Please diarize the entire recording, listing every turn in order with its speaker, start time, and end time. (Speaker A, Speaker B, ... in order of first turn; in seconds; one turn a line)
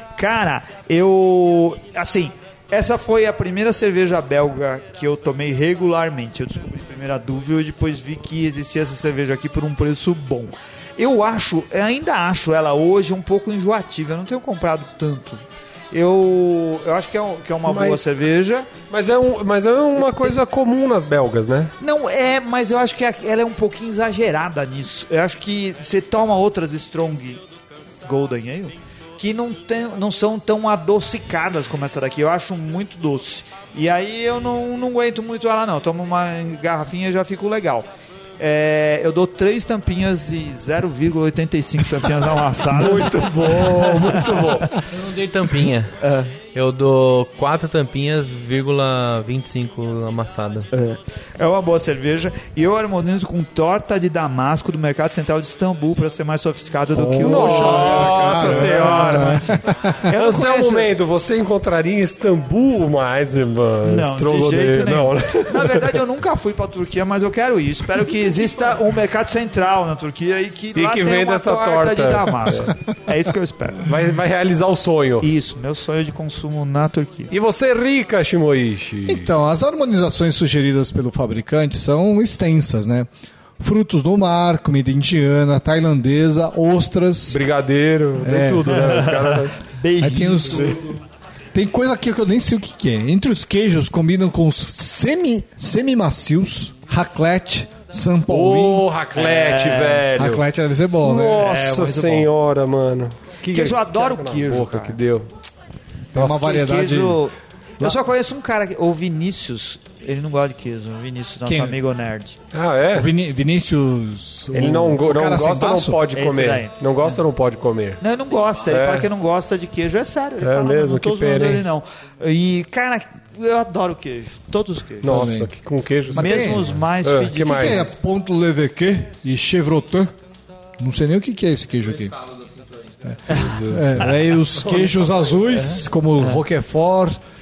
Speaker A: 0.1-18.7
Speaker B: 17.6-18.1
Speaker B: 18.9-21.7
Speaker A: 21.8-27.4
Speaker A: 28.0-37.9
Speaker A: 38.4-44.6
Speaker B: 42.7-44.8
Speaker C: 44.8-45.9
Speaker A: 46.0-46.3
Speaker C: 46.5-50.7
Speaker A: 50.7-60.9
Speaker D: 56.9-60.0
Speaker B: 57.2-66.0
Speaker A: 63.8-73.9
Speaker B: 70.7-72.7
Speaker B: 73.8-75.3
Speaker A: 75.2-77.3
Speaker B: 77.3-79.3
Speaker D: 79.0-83.1
Speaker D: 83.6-87.4
Speaker B: 87.3-89.6
Speaker D: 88.2-88.8
Speaker A: 88.7-90.8
Speaker D: 90.0-90.8
Speaker B: 90.5-90.8
Speaker D: 91.5-98.9
Speaker B: 98.3-100.4
Speaker A: 99.1-100.0
Speaker D: 100.2-101.5
Speaker B: 101.0-105.3
Speaker A: 101.4-102.3
Speaker A: 103.5-105.0
Speaker D: 106.1-107.2
Speaker B: 106.2-106.5
Speaker A: 106.2-112.4
Speaker D: 111.5-111.8
Speaker B: 112.5-113.1
Speaker D: 112.9-116.0
Speaker B: 114.5-118.0
Speaker A: 116.1-117.2
Speaker A: 118.0-125.2
Speaker B: 118.7-119.1
Speaker B: 120.4-121.7
Speaker B: 125.0-127.9
Speaker D: 125.0-125.5
Speaker D: 126.1-126.8
Speaker A: 126.1-127.9
Speaker D: 127.5-130.1
Speaker D: 130.8-132.3
Speaker D: 133.0-137.2
Speaker B: 133.3-133.9